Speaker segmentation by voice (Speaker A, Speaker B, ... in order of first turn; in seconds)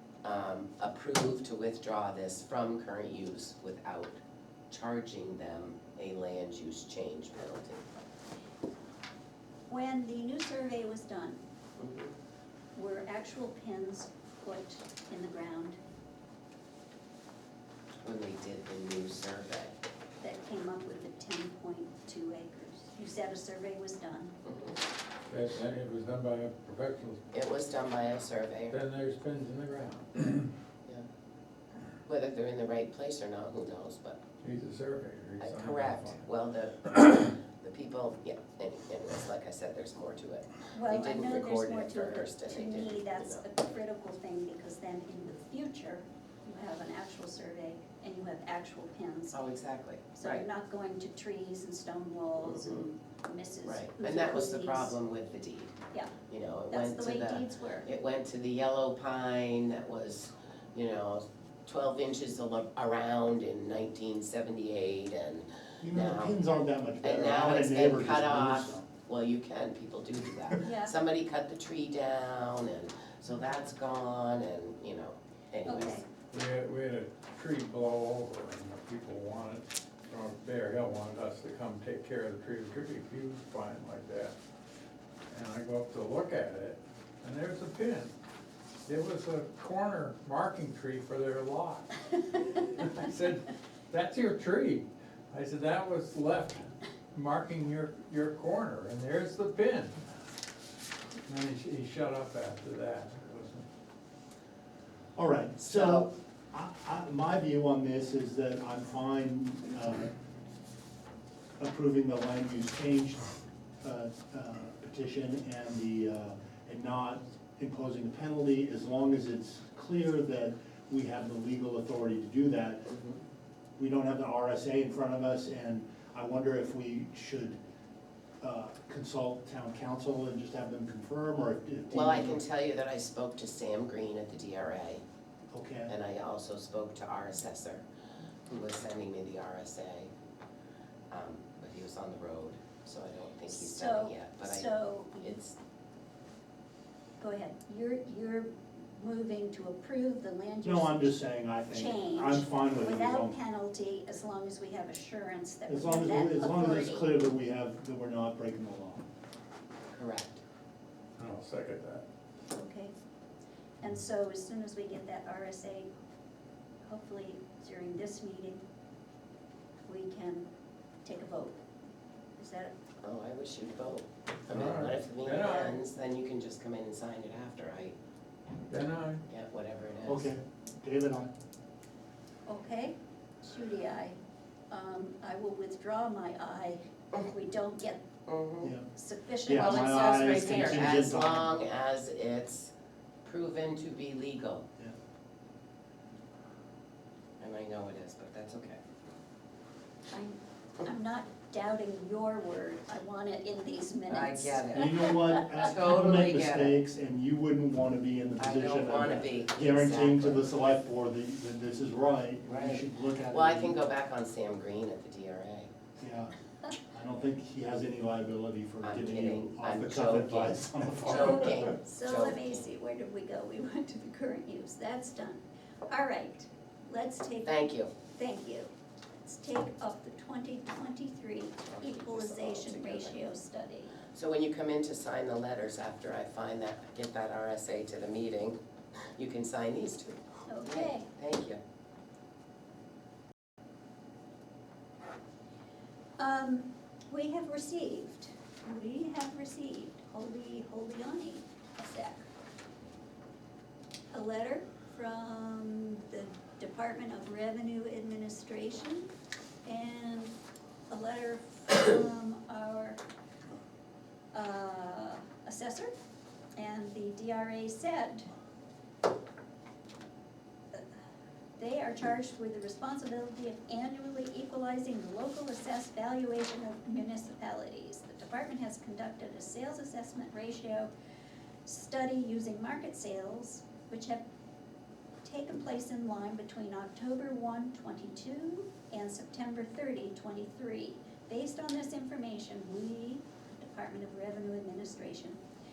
Speaker A: 0.2-4.2, 4.7-7.8, 11.8-12.1, 18.0-19.8, 24.4-24.8, 27.3-28.8, 32.0-34.2, 35.4-43.4, 49.3-50.4, 52.4-52.9, 53.6-55.7, 56.3-66.4, 67.0-76.0, 105.6-106.0, 122.8-123.2, 131.9-135.0, 135.9-137.8, 138.5-140.1, 141.1-145.6, 159.9-160.4, 173.0-177.9, 179.3-180.3, 188.3-188.7, 189.5-192.7, 193.2-194.7, 197.4-198.8, 204.1-206.8, 208.4-210.4, 212.4-215.7, 218.8-222.7, 227.4-227.9, 231.7-233.2, 234.1-238.6, 239.1-241.6
Speaker B: 9.7-11.4, 12.7-15.8, 20.2-24.3, 40.7-49.4, 50.1-54.9, 56.7-57.9, 70.6-70.9, 75.7-76.0, 143.5-145.4, 147.2-151.1, 151.7-157.1, 162.5-162.9, 163.8-165.9, 166.8-168.6, 169.9-170.5, 171.0-171.6, 172.4-172.7, 182.4-184.2, 184.7-188.0, 188.9-190.9, 200.1-205.1, 221.1-228.7, 229.2-233.9, 240.5-241.1, 246.2-252.2, 254.1-259.1, 259.6-260.3, 260.9-263.0, 264.3-265.9, 266.6-268.3, 271.6-280.9, 281.6-284.2, 285.2-295.4
Speaker C: 25.3-27.2, 28.7-30.5, 34.4-36.2, 76.3-84.3, 85.3-88.1, 88.8-100.0, 101.2-103.7, 161.2-162.0, 174.5-175.8, 178.7-179.2
Speaker D: 65.8-68.8, 105.2-110.1, 111.6-113.3, 113.8-122.8, 123.8-127.6, 128.4-132.4, 135.5-135.9, 150.6-153.3, 155.7-159.1, 180.1-181.3, 188.6-188.9, 189.4-191.6, 204.7-213.8, 216.0-216.3, 216.9-221.6